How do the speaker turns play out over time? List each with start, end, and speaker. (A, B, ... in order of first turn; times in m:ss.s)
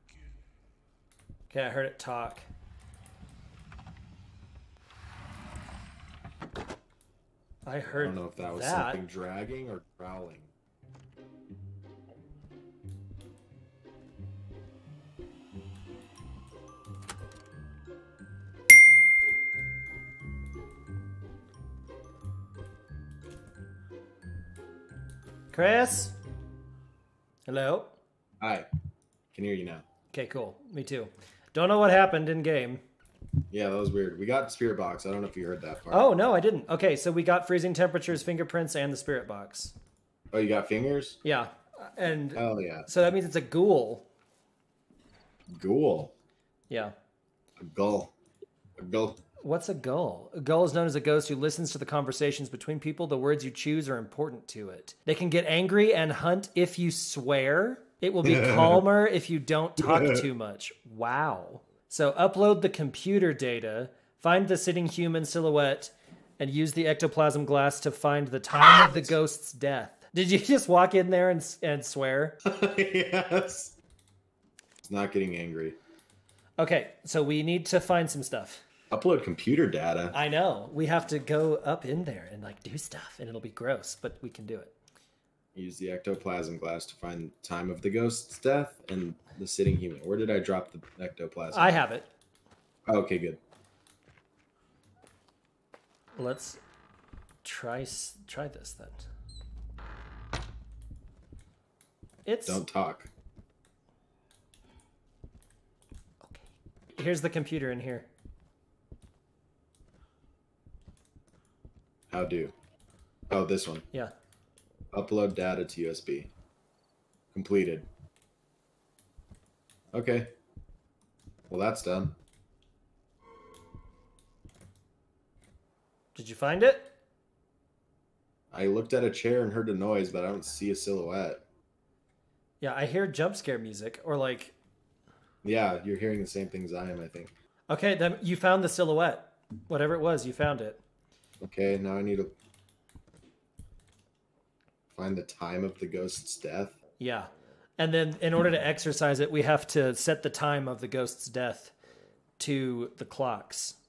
0:01.5-0:02.4 A
0:07.6-0:09.0 A
0:07.9-0:10.5 B
0:25.5-0:26.2 A
0:27.5-0:27.9 A
0:28.4-0:28.7 B
0:29.3-0:29.8 B
0:30.1-0:32.8 A
0:33.5-0:36.1 B
0:35.9-0:39.7 A
0:40.3-0:41.2 B
0:41.2-0:44.1 A
0:42.3-0:42.9 B
0:45.5-0:46.1 B
0:47.6-0:48.1 B
0:48.8-0:49.2 B
0:49.4-1:12.4 A
0:58.2-0:58.8 B
0:59.8-1:00.3 B
1:08.6-1:09.1 B
1:12.4-1:13.8 B
1:14.8-1:15.8 B
1:16.6-1:18.6 A
1:18.9-1:20.2 B
1:20.1-1:24.7 A
1:25.5-1:31.8 B
1:31.5-1:32.1 A
1:32.9-1:33.4 B
1:36.1-1:36.6 A
1:37.4-1:39.1 A
1:42.2-1:42.6 A
1:42.4-1:43.1 B
1:46.2-1:48.1 A
1:52.1-1:52.5 B
1:53.3-1:53.8 B
1:54.9-1:56.3 B
1:57.3-1:57.9 B
1:59.9-2:00.3 B
2:01.5-2:02.2 B
2:06.1-2:06.9 A
2:08.5-2:11.4 B
2:12.6-2:14.5 A
2:15.4-2:17.3 B
2:17.7-2:20.8 A
2:21.4-2:22.3 B
2:24.9-2:26.8 B
2:27.0-2:31.7 A
2:32.4-2:33.8 A